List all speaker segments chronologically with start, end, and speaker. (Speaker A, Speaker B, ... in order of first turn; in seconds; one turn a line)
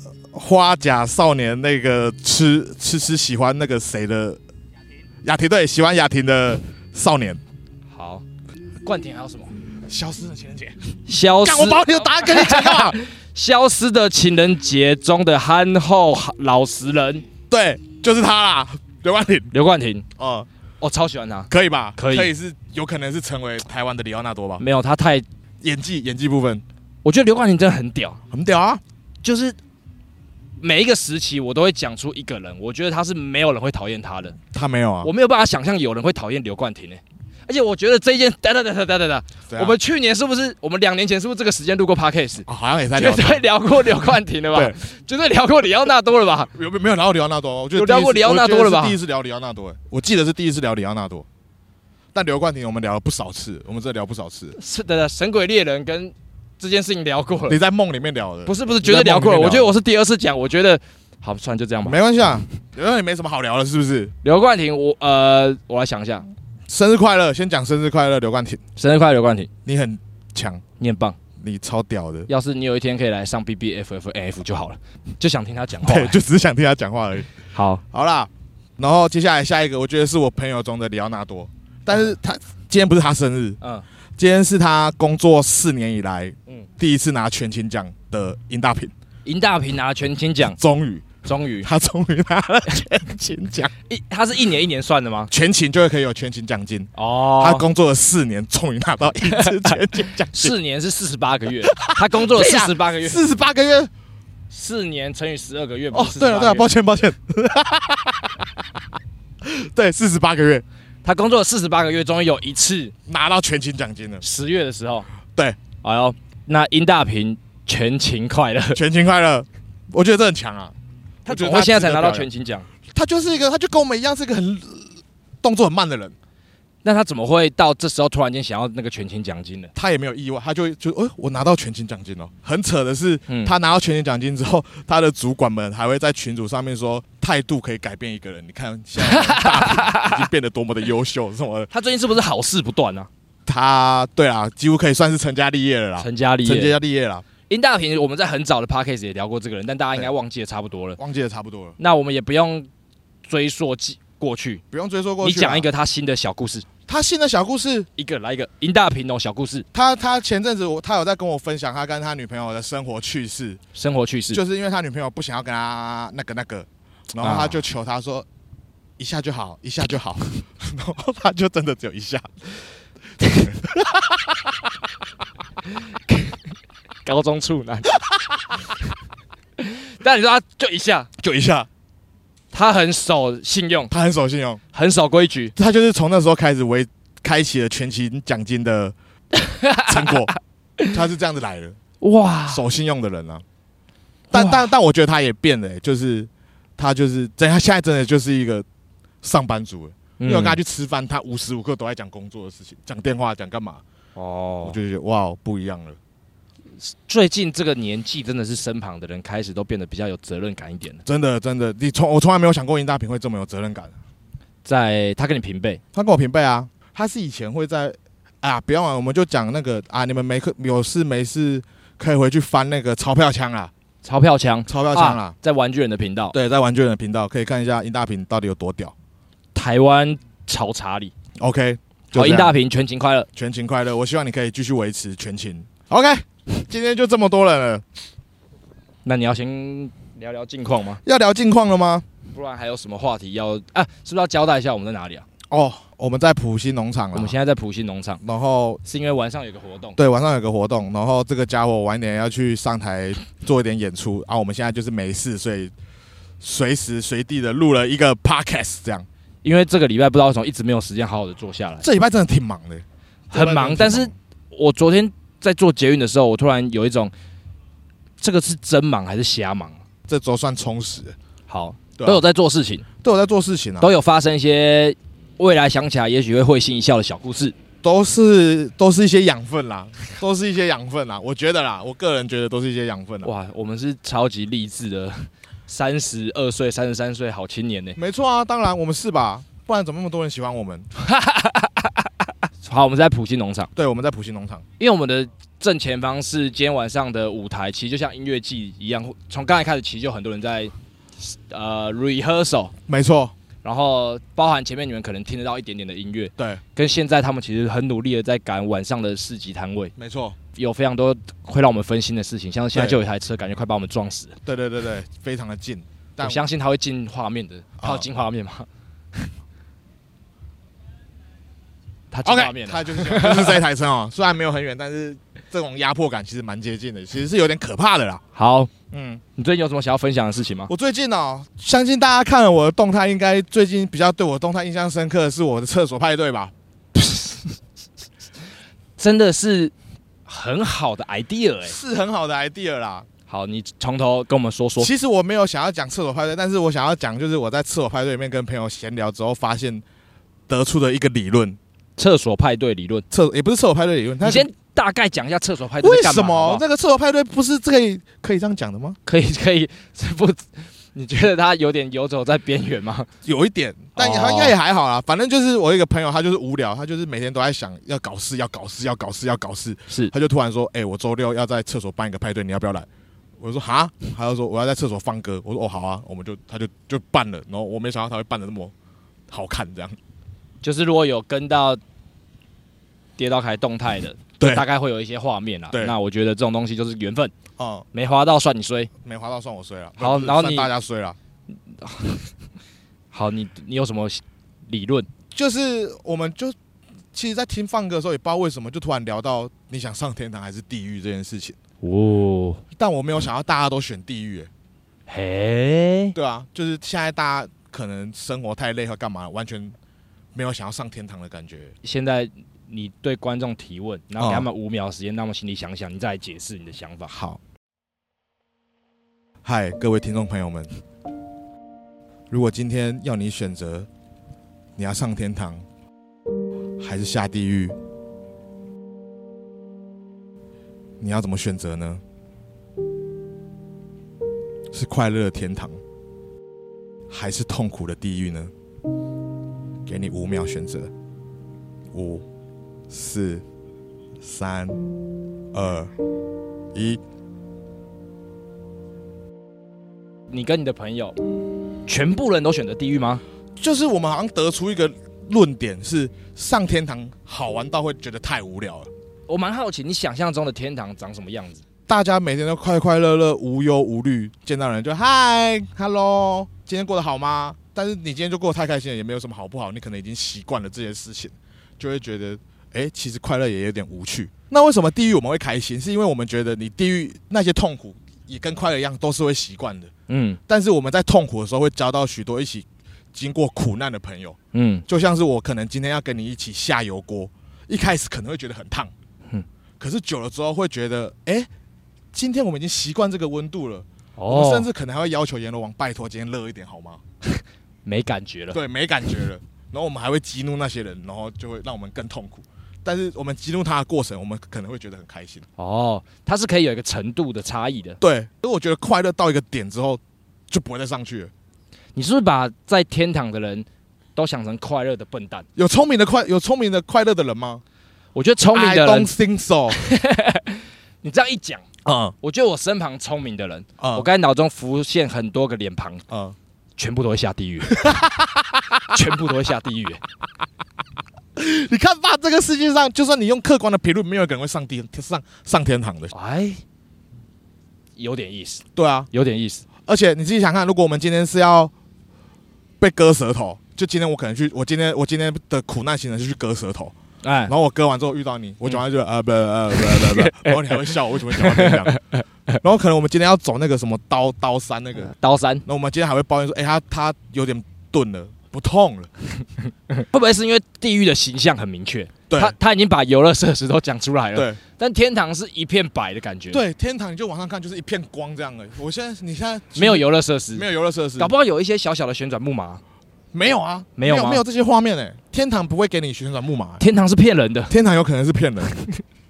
Speaker A: 0.3-4.4
Speaker A: 5.2-7.4
Speaker B: 7.9-8.2
Speaker B: 8.8-9.5
Speaker A: 9.9-10.8
Speaker B: 11.1-17.2
Speaker A: 11.4-13.0
Speaker A: 17.5-19.5
Speaker B: 19.5-20.1
Speaker A: 20.2-20.5
Speaker B: 20.8-22.3
Speaker A: 21.5-24.6
Speaker B: 24.6-25.2
Speaker A: 25.6-26.6
Speaker B: 27.0-28.2
Speaker A: 28.3-28.8
Speaker B: 29.2-29.6
Speaker B: 30.6-34.4
Speaker A: 34.5-35.1
Speaker B: 35.0-46.5
Speaker A: 39.5-39.8
Speaker A: 42.5-43.4
Speaker A: 46.5-51.2
Speaker B: 47.7-49.0
Speaker A: 52.1-54.5
Speaker B: 54.5-57.6
Speaker A: 57.5-59.7
Speaker B: 58.5-62.0
Speaker A: 61.8-64.1
Speaker B: 64.2-66.3
Speaker A: 66.7-68.6
Speaker B: 68.8-69.5
Speaker A: 69.7-70.6
Speaker B: 70.8-71.2
Speaker A: 71.4-72.3
Speaker B: 72.3-76.2
Speaker A: 75.8-77.4
Speaker B: 77.5-77.8
Speaker A: 77.9-83.6
Speaker A: 84.2-88.9
Speaker B: 89.2-90.6
Speaker A: 90.5-93.7
Speaker B: 91.2-91.7
Speaker B: 93.9-95.3
Speaker A: 95.3-100.5
Speaker B: 96.9-97.7
Speaker B: 99.3-103.2
Speaker A: 101.6-103.9
Speaker B: 104.5-106.7
Speaker A: 105.9-108.6
Speaker A: 109.4-110.6
Speaker B: 111.0-112.9
Speaker A: 113.0-114.2
Speaker B: 114.2-115.1
Speaker B: 115.8-118.8
Speaker A: 118.7-120.7
Speaker B: 121.2-122.7
Speaker A: 121.2-122.3
Speaker A: 122.9-126.1
Speaker B: 126.8-129.7
Speaker A: 129.7-141.7
Speaker B: 139.0-140.2
Speaker B: 141.7-143.1
Speaker A: 143.4-147.2
Speaker B: 146.0-146.8
Speaker B: 147.5-151.0
Speaker A: 151.0-151.8
Speaker B: 151.8-152.7
Speaker B: 153.2-154.6
Speaker A: 154.7-155.7
Speaker B: 155.2-156.7
Speaker A: 156.9-157.9
Speaker B: 158.0-159.7
Speaker A: 159.7-163.6
Speaker B: 163.7-164.4
Speaker A: 164.3-168.2
Speaker B: 167.2-167.6
Speaker A: 169.0-172.3
Speaker A: 173.2-174.5
Speaker B: 177.0-178.0
Speaker B: 179.6-181.1
Speaker A: 181.2-181.7
Speaker B: 182.5-183.9
Speaker A: 183.9-184.6
Speaker B: 184.7-185.5
Speaker A: 185.6-188.9
Speaker B: 189.4-189.9
Speaker A: 189.8-190.3
Speaker A: 190.9-191.8
Speaker B: 192.0-192.6
Speaker A: 192.5-193.4
Speaker B: 194.3-194.7
Speaker A: 194.3-198.7
Speaker A: 199.2-203.8
Speaker B: 200.2-200.6
Speaker B: 204.1-204.8
Speaker A: 204.6-206.0
Speaker B: 206.8-211.0
Speaker A: 211.1-213.9
Speaker B: 214.6-215.8
Speaker A: 215.9-223.7
Speaker B: 224.0-226.3
Speaker A: 224.7-225.3
Speaker A: 226.3-228.9
Speaker B: 229.5-231.1
Speaker A: 231.4-232.6
Speaker B: 232.1-233.3
Speaker A: 233.3-237.8
Speaker B: 239.0-241.0
Speaker A: 241.0-242.1
Speaker B: 242.3-245.2
Speaker A: 245.5-247.3
Speaker B: 247.1-248.2
Speaker A: 248.2-248.8
Speaker B: 248.8-250.0
Speaker A: 250.0-255.7
Speaker A: 256.4-259.1
Speaker B: 259.4-261.8
Speaker A: 261.8-264.1
Speaker B: 263.3-267.1
Speaker B: 268.2-269.8
Speaker A: 270.1-271.1
Speaker B: 271.5-272.9
Speaker A: 273.0-273.9
Speaker B: 273.8-277.6
Speaker A: 277.8-283.3
Speaker B: 283.2-288.0
Speaker A: 288.0-290.9
Speaker B: 291.0-292.1
Speaker B: 292.6-293.7
Speaker A: 293.7-294.6
Speaker B: 294.8-302.7
Speaker A: 302.9-303.3
Speaker B: 303.6-309.9
Speaker A: 309.9-310.4
Speaker B: 310.5-314.4
Speaker A: 312.7-313.0
Speaker A: 314.4-316.4
Speaker B: 316.2-319.3
Speaker A: 317.8-318.1
Speaker B: 322.1-323.6
Speaker A: 322.2-328.2
Speaker B: 328.3-328.7
Speaker A: 328.9-329.2
Speaker B: 329.4-330.7
Speaker A: 330.7-336.5
Speaker B: 337.0-337.3
Speaker B: 339.0-339.7
Speaker B: 340.3-341.7
Speaker A: 341.6-343.1
Speaker B: 343.3-344.9
Speaker A: 344.8-349.8
Speaker A: 350.5-351.6
Speaker B: 352.0-353.0
Speaker A: 353.1-354.5
Speaker B: 354.2-356.6
Speaker A: 355.8-359.0
Speaker B: 359.1-363.1
Speaker A: 363.2-372.9
Speaker B: 363.9-364.5
Speaker A: 373.4-378.7
Speaker A: 379.3-380.0
Speaker B: 380.6-381.8
Speaker B: 383.2-387.3
Speaker A: 384.4-384.6
Speaker A: 385.7-385.9
Speaker A: 387.6-387.9
Speaker B: 387.9-388.9
Speaker A: 389.0-391.2
Speaker B: 390.0-390.7
Speaker B: 391.8-392.2
Speaker B: 393.1-395.1
Speaker A: 395.3-396.5
Speaker A: 397.1-401.6
Speaker B: 401.8-402.6
Speaker A: 402.7-404.5
Speaker B: 405.1-406.1
Speaker A: 406.1-409.8
Speaker A: 410.3-411.7
Speaker B: 411.8-417.1
Speaker A: 414.2-414.5
Speaker A: 417.1-417.4
Speaker A: 419.4-420.7
Speaker A: 422.3-423.9
Speaker A: 424.8-425.6
Speaker A: 426.8-427.8
Speaker A: 431.0-432.0
Speaker A: 434.7-435.8
Speaker A: 437.1-438.5
Speaker A: 439.9-440.9
Speaker A: 441.9-442.2
Speaker A: 442.9-443.4
Speaker A: 444.2-444.9
Speaker A: 445.5-445.9
Speaker A: 446.7-447.0
Speaker B: 450.3-451.2
Speaker B: 451.9-453.2
Speaker A: 453.6-458.9
Speaker B: 459.3-461.6
Speaker A: 461.9-479.9
Speaker B: 480.1-480.4
Speaker A: 480.5-488.9
Speaker B: 484.5-484.8
Speaker A: 489.8-491.5
Speaker A: 492.1-497.0
Speaker B: 494.2-494.7
Speaker B: 497.8-498.6
Speaker A: 498.5-505.4
Speaker B: 505.6-508.0
Speaker A: 508.0-511.3
Speaker B: 511.9-515.5
Speaker A: 515.6-517.6
Speaker B: 518.1-519.1
Speaker A: 518.5-519.8
Speaker B: 519.7-521.6
Speaker A: 521.8-522.1
Speaker B: 522.2-526.0
Speaker A: 523.8-524.1
Speaker A: 526.1-526.4
Speaker B: 526.8-527.9
Speaker A: 527.7-528.9
Speaker B: 528.9-530.0
Speaker A: 531.4-536.1
Speaker B: 536.1-536.6
Speaker B: 538.0-539.6
Speaker A: 538.8-539.1
Speaker A: 539.8-541.7
Speaker A: 542.8-546.9
Speaker B: 547.2-547.5
Speaker A: 547.5-552.0
Speaker B: 549.8-552.5
Speaker A: 552.6-555.1
Speaker B: 555.1-555.6
Speaker A: 555.6-559.1
Speaker B: 559.9-566.6
Speaker A: 562.3-562.5
Speaker A: 564.3-564.6
Speaker A: 566.5-571.3
Speaker B: 569.7-570.6
Speaker B: 571.2-572.8
Speaker A: 573.3-576.8
Speaker B: 574.0-574.4
Speaker B: 576.8-577.7
Speaker A: 577.7-578.7